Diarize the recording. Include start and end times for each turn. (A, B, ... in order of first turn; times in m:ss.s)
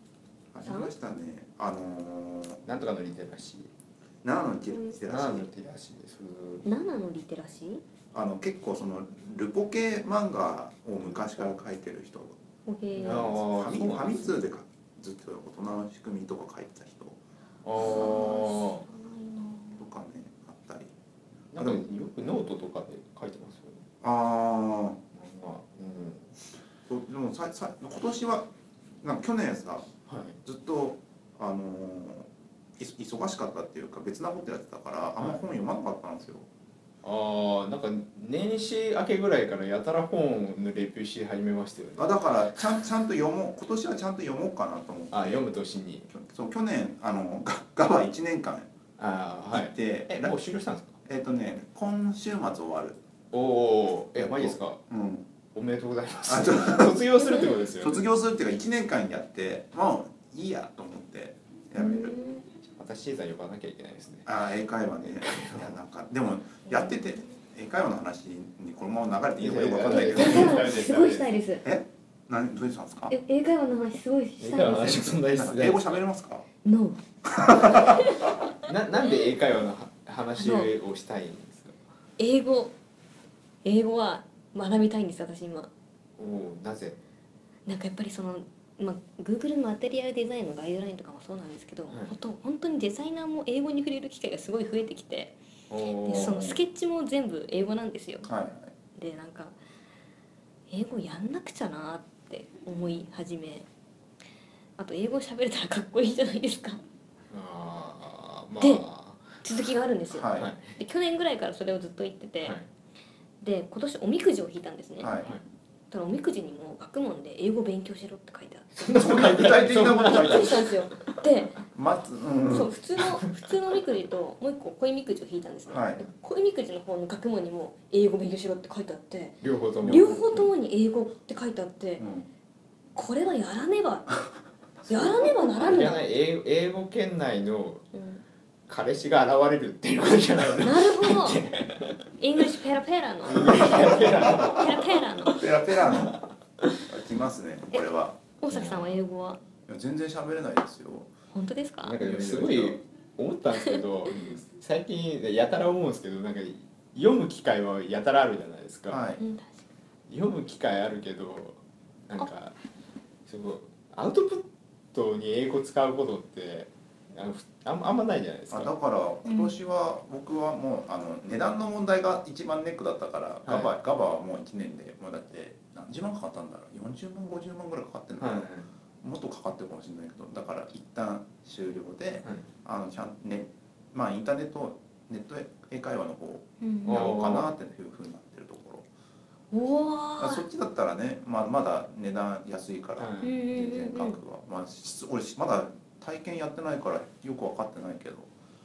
0:00.5-0:02.6 A
0:00.6-0:00.9 B
0:02.6-0:03.7 C
0:04.2-0:05.5 A
0:05.1-0:06.6 C
0:06.6-0:07.8 B
0:08.1-0:12.4 A
0:12.6-0:13.3 B
0:13.0-0:17.2 A
0:13.0-0:14.4 C
0:17.6-0:18.8 C
0:17.8-0:19.8 B
0:17.8-0:18.2 A
0:19.8-0:20.9 A
0:21.5-0:23.8 C
0:21.5-0:21.8 A
0:24.0-0:25.0 A
0:25.1-0:26.3 C
0:26.9-0:28.5 A
0:29.0-0:29.9 A
0:30.1-0:30.4 C
0:30.4-0:36.5 A
0:37.0-0:42.1 C
0:42.0-0:45.4 A
0:45.1-0:46.1 C
0:46.1-0:48.7 A
0:49.0-0:51.0 C
0:49.5-0:50.3 A
0:51.0-0:53.0 A
0:53.3-0:54.8 C
0:54.2-0:55.3 A
0:55.5-0:58.0 C
0:56.2-0:57.0 A
0:57.8-1:02.2 A
1:01.8-1:02.4 B
1:02.7-1:04.3 C
1:04.2-1:10.7 A
1:05.0-1:05.8 C
1:06.7-1:07.1 B
1:09.4-1:11.3 C
1:09.9-1:11.6 B
1:11.6-1:13.1 A
1:13.1-1:15.0 B
1:14.4-1:16.0 C
1:14.7-1:16.4 A
1:16.6-1:18.4 B
1:17.2-1:18.3 A
1:18.6-1:21.8 C
1:20.4-1:20.7 B
1:22.2-1:22.7 B
1:23.6-1:25.7 B
1:26.2-1:27.0 C
1:27.6-1:35.4 B
1:35.7-1:36.6 C
1:36.0-1:38.3 B
1:36.1-1:36.5 A
1:38.2-1:38.7 A
1:39.0-1:39.6 B
1:40.7-1:43.6 B
1:44.8-1:46.8 B
1:47.3-1:49.4 C
1:48.6-1:48.8 B
1:49.4-1:52.6 B
1:50.1-1:50.5 A
1:50.4-1:50.8 C
1:53.4-1:55.1 B
1:55.0-1:55.3 A
1:55.9-1:58.7 B
1:58.8-2:01.1 C
1:58.9-2:00.6 A
2:00.0-2:01.6 B
2:01.7-2:02.7 A
2:02.5-2:12.0 B
2:05.7-2:06.0 A
2:09.4-2:10.5 C
2:12.0-2:12.3 A
2:12.9-2:14.2 B
2:14.9-2:16.0 B
2:14.9-2:17.8 C
2:17.9-2:18.2 B
2:18.7-2:22.5 C
2:20.6-2:21.4 B
2:22.2-2:25.5 B
2:23.2-2:25.2 C
2:24.2-2:24.6 A
2:25.2-2:26.2 A
2:26.8-2:28.2 A
2:28.4-2:29.4 B
2:28.5-2:29.0 C
2:29.7-2:31.1 A
2:31.3-2:32.0 B
2:31.8-2:39.0 C
2:32.0-2:32.8 A
2:33.6-2:34.1 B
2:38.9-2:39.2 A
2:39.2-2:39.7 B
2:40.1-2:42.6 C
2:43.3-2:48.7 C
2:48.5-2:58.5 A
2:49.2-2:49.5 B
2:53.4-2:53.7 C
2:58.2-2:58.7 C
2:59.0-3:08.8 A
3:06.6-3:07.1 B
3:06.8-3:07.5 C
3:09.5-3:10.4 B
3:10.2-3:18.3 A
3:13.0-3:13.3 C
3:13.2-3:14.2 B